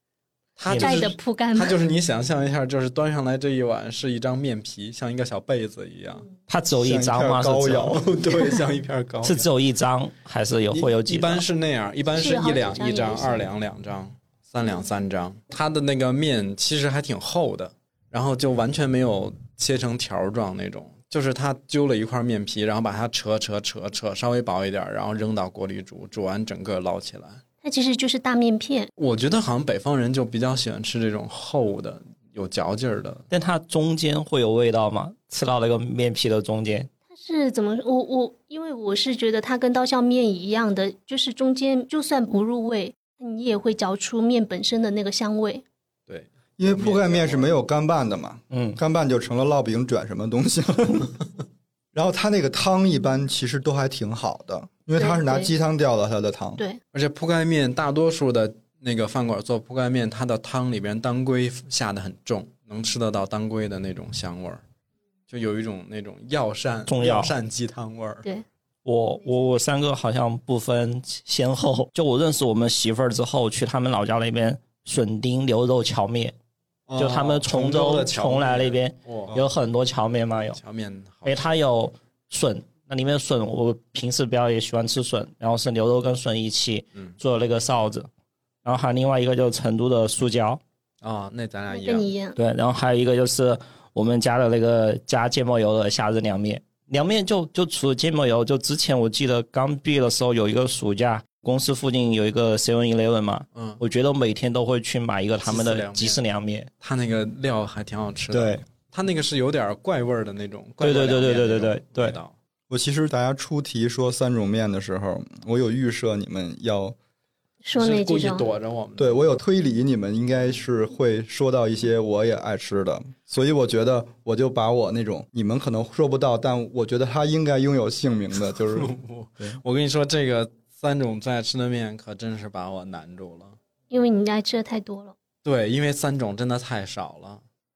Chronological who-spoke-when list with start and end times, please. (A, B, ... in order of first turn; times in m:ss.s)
0:00.6-0:06.2 A
0:00.7-0:01.1 B
0:00.7-0:01.8 C
0:06.5-0:08.0 B
0:06.7-0:08.1 D
0:07.9-0:09.5 A
0:09.2-0:11.4 B
0:10.7-0:27.4 A
0:12.1-0:13.4 C
0:27.6-0:28.9 C
0:29.0-0:33.3 A
0:33.3-0:36.9 B
0:37.1-0:45.6 C
0:46.1-0:47.5 A
0:46.6-0:51.2 D
0:48.5-0:48.8 B
0:51.9-0:56.6 D
0:55.0-0:55.5 C
0:56.9-1:04.6 A
1:05.3-1:08.3 A
1:06.9-1:07.4 B
1:08.8-1:16.4 B
1:16.9-1:19.4 A
1:17.0-1:20.6 B
1:20.6-1:21.5 A
1:21.2-1:28.1 B
1:28.6-1:30.6 B
1:31.0-1:32.1 A
1:31.7-1:32.4 C
1:32.4-1:46.7 B
1:43.6-1:43.8 A
1:45.4-1:46.2 A
1:46.8-1:52.3 A
1:48.3-1:48.6 B
1:50.8-1:52.2 B
1:52.7-1:57.0 D
1:57.6-1:58.5 C
1:57.8-1:59.2 A
1:59.0-2:09.6 D
2:08.4-2:13.6 A
2:13.9-2:15.2 C
2:15.4-2:17.4 A